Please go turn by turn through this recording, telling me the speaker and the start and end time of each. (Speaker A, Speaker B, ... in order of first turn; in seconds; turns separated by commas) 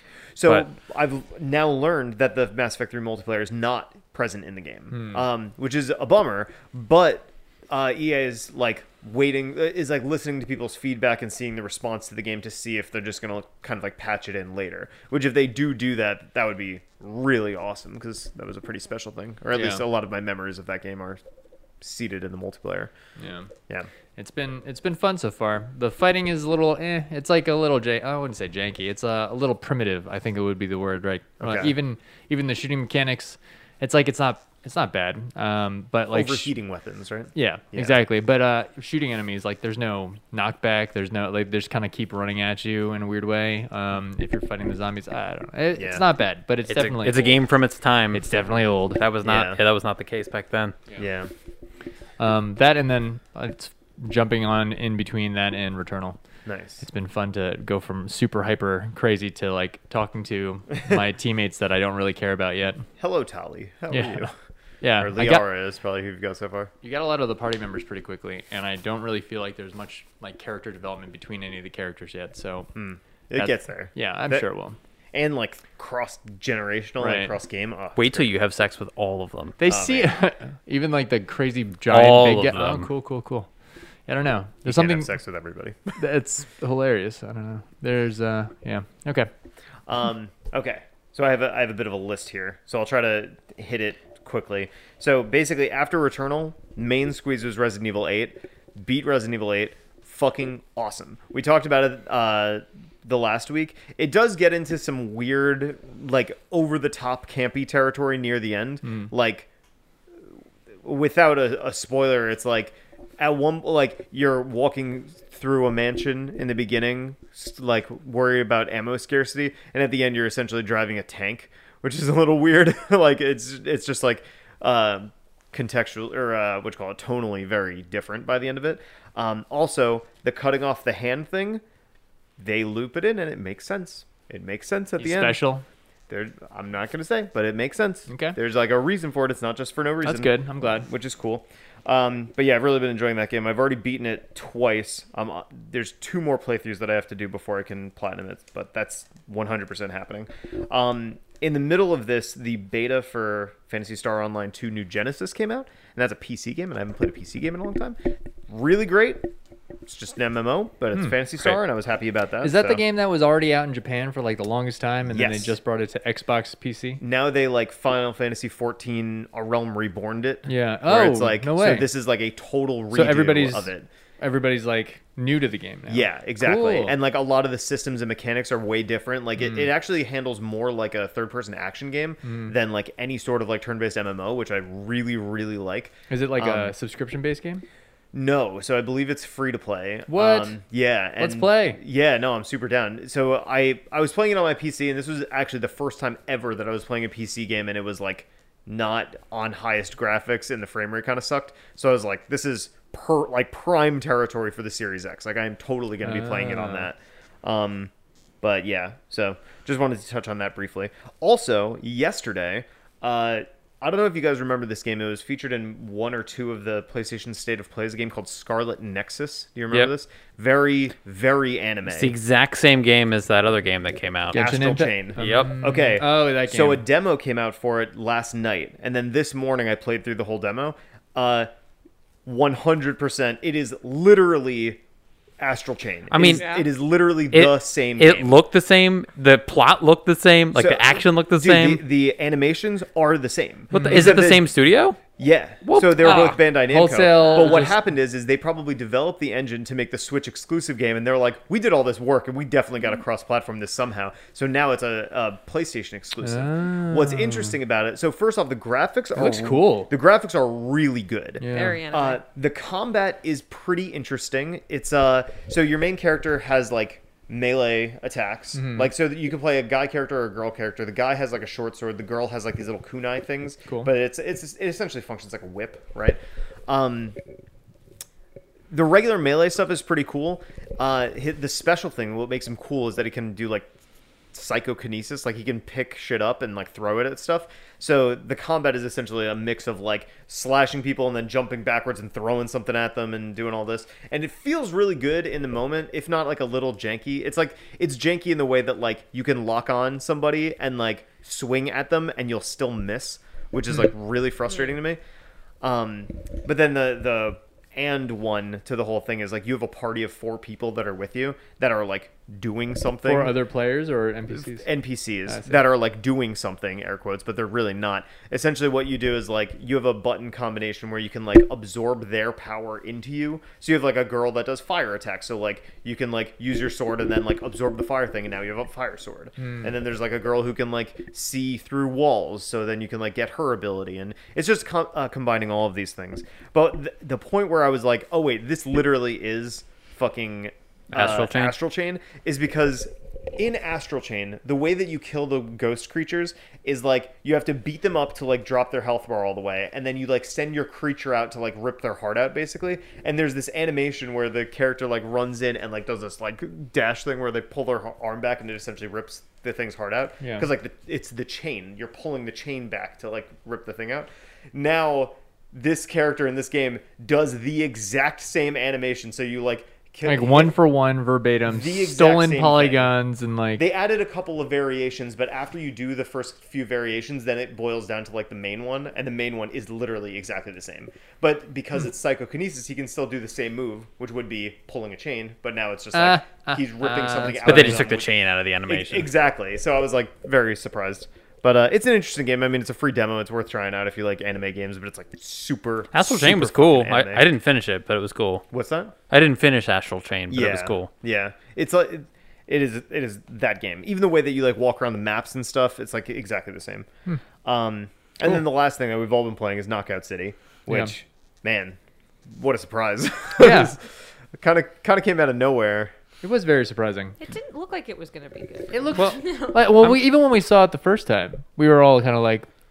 Speaker A: 0.3-21.2, Speaker B: 4.9-5.2, Speaker B: 19.5-19.8, Speaker A: 21.8-22.9, Speaker B: 23.2-23.5, Speaker B: 24.1-36.5, Speaker A: 31.4-31.8, Speaker A: 36.1-38.0, Speaker B: 37.3-47.4, Speaker A: 45.8-46.0, Speaker C: 46.7-48.3, Speaker B: 48.1-49.1, Speaker C: 48.9-50.7, Speaker A: 49.2-49.6, Speaker A: 51.0-51.3, Speaker B: 52.2-56.2, Speaker A: 56.5-56.8, Speaker B: 56.8-62.9, Speaker A: 63.0-64.3, Speaker B: 63.9-64.3, Speaker B: 64.8-65.4, Speaker A: 64.9-66.7, Speaker B: 66.8-72.7, Speaker A: 72.7-74.5, Speaker B: 73.4-74.8, Speaker A: 75.1-78.3, Speaker B: 77.0-77.3, Speaker C: 78.0-79.6, Speaker B: 79.6-83.5, Speaker A: 79.7-80.1, Speaker C: 81.9-82.9, Speaker B: 84.1-85.1, Speaker A: 84.6-86.0, Speaker B: 86.0-89.3, Speaker A: 89.9-109.5, Speaker B: 108.8-109.1, Speaker A: 110.8-131.6, Speaker A: 132.4-135.4, Speaker B: 135.0-135.6, Speaker A: 136.1-159.3, Speaker B: 138.1-138.4, Speaker B: 140.0-140.9, Speaker A: 159.9-162.8, Speaker B: 160.9-161.2, Speaker B: 162.4-167.0, Speaker A: 165.1-165.6, Speaker A: 167.0-173.9, Speaker B: 170.5-171.9, Speaker B: 172.9-176.9, Speaker A: 175.9-186.7, Speaker B: 179.4-179.7, Speaker B: 182.2-182.5, Speaker B: 186.1-187.6, Speaker A: 188.1-207.9, Speaker B: 190.1-190.5, Speaker B: 191.2-191.8, Speaker B: 206.0-206.9, Speaker A: 208.4-222.2, Speaker C: 221.9-224.4, Speaker B: 224.3-226.8, Speaker A: 224.3-231.5, Speaker C: 225.2-225.5, Speaker A: 232.2-234.8, Speaker A: 235.4-238.3, Speaker C: 236.1-236.5, Speaker D: 236.2-236.7, Speaker C: 237.3-241.8, Speaker A: 240.5-244.5, Speaker C: 243.7-245.0, Speaker B: 243.7-244.1, Speaker A: 245.2-277.2, Speaker C: 245.6-246.4, Speaker B: 246.0-247.8, Speaker B: 256.2-257.6, Speaker B: 259.1-259.9, Speaker B: 261.4-261.8, Speaker D: 261.5-262.2, Speaker B: 268.5-268.9, Speaker B: 273.6-273.9, Speaker A: 278.7-283.7, Speaker A: 284.3-305.0, Speaker A: 305.6-313.3, Speaker B: 313.0-314.7, Speaker A: 314.5-370.6, Speaker B: 315.3-315.6, Speaker B: 329.4-329.7, Speaker C: 340.9-341.5, Speaker B: 360.2-360.5, Speaker B: 370.0-373.6, Speaker A: 371.5-372.9, Speaker A: 373.6-388.1, Speaker B: 385.9-387.9, Speaker C: 387.4-389.1, Speaker A: 388.7-397.3, Speaker C: 395.9-398.4, Speaker A: 398.5-398.9, Speaker C: 399.1-400.9, Speaker A: 400.3-406.9, Speaker A: 407.4-415.9, Speaker B: 413.4-413.7, Speaker B: 416.2-417.1, Speaker D: 417.2-419.6, Speaker B: 418.7-422.5